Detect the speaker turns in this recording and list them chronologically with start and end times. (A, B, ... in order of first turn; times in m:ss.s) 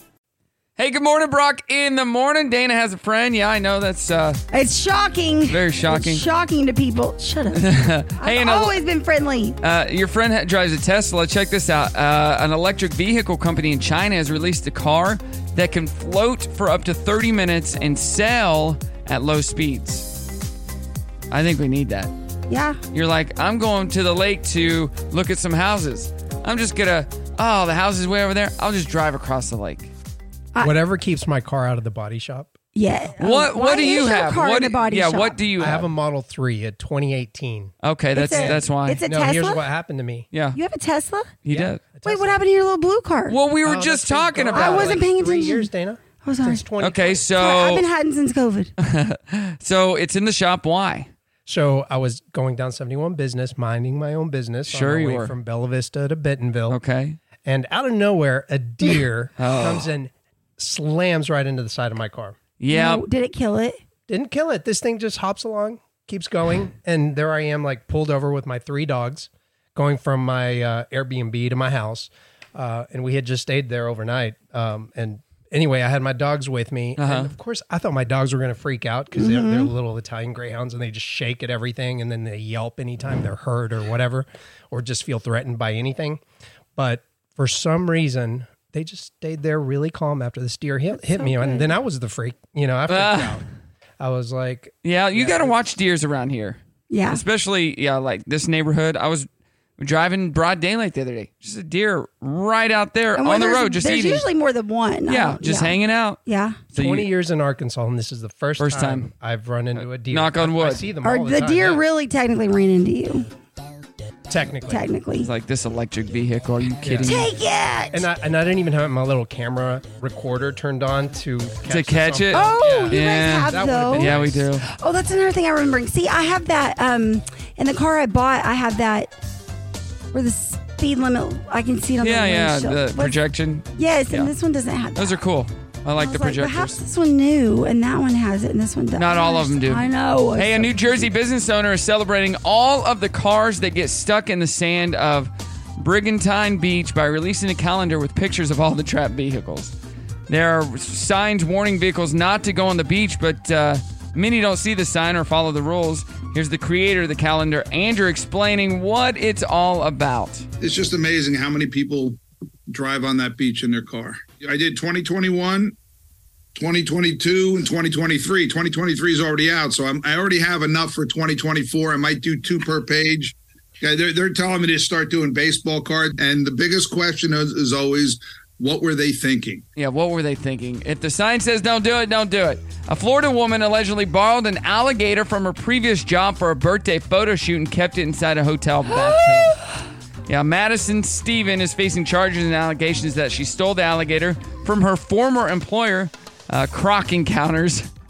0:00.8-0:04.4 A
0:04.5-0:07.6 B
0:05.5-0:06.2 A
0:07.6-0:08.8 A
0:08.2-0:09.6 B
0:09.6-0:20.1 A
0:21.3-0:22.1 A
0:22.5-0:22.8 B
0:22.9-0:29.9 A
0:30.6-0:32.5 C
0:32.7-0:35.4 B
0:33.2-0:35.9 A
0:35.6-0:37.7 C
0:37.8-0:39.0 A
0:38.2-0:39.6 B
0:38.3-0:40.3 C
0:40.3-0:40.6 A
0:40.5-0:41.3 B
0:41.4-0:41.8 A
0:41.5-0:42.4 C
0:42.0-0:43.4 B
0:43.3-0:45.0 A
0:43.6-0:47.3 C
0:44.5-0:45.7 B
0:46.2-0:46.6 B
0:46.8-0:47.8 A
0:47.4-0:48.7 B
0:48.8-0:51.1 A
0:51.4-0:56.8 C
0:54.7-0:55.3 A
0:56.7-0:57.2 A
0:57.4-1:02.4 C
0:59.4-0:59.9 A
1:02.6-1:03.0 A
1:02.7-1:03.8 B
1:04.1-1:26.2 C
1:17.0-1:17.3 A
1:19.2-1:19.7 B
1:26.8-1:33.4 C
1:30.9-1:31.7 B
1:32.9-1:33.4 A
1:34.0-1:35.5 C
1:34.8-1:39.3 A
1:36.9-1:37.2 B
1:39.8-1:44.2 A
1:43.2-1:46.6 B
1:45.1-1:46.2 A
1:46.7-1:47.1 A
1:46.7-1:51.8 C
1:48.6-1:49.1 A
1:49.8-1:50.9 A
1:51.0-1:53.2 B
1:54.3-1:54.8 C
1:54.7-1:55.3 B
1:55.2-1:57.3 A
1:56.8-1:57.3 C
1:57.0-1:58.0 B
1:57.9-2:04.5 C
2:01.7-2:04.6 A
2:02.3-2:04.1 B
2:04.7-2:09.1 B
2:10.1-2:13.2 B
2:12.0-2:14.3 A
2:13.8-2:15.2 B
2:15.0-2:16.8 A
2:16.0-2:21.1 B
2:19.0-2:29.7 A
2:30.3-2:40.4 A
2:40.6-2:42.2 D
2:42.7-2:45.7 D
2:46.6-2:59.6 D
2:59.8-3:09.6 A
3:10.3-3:17.9 A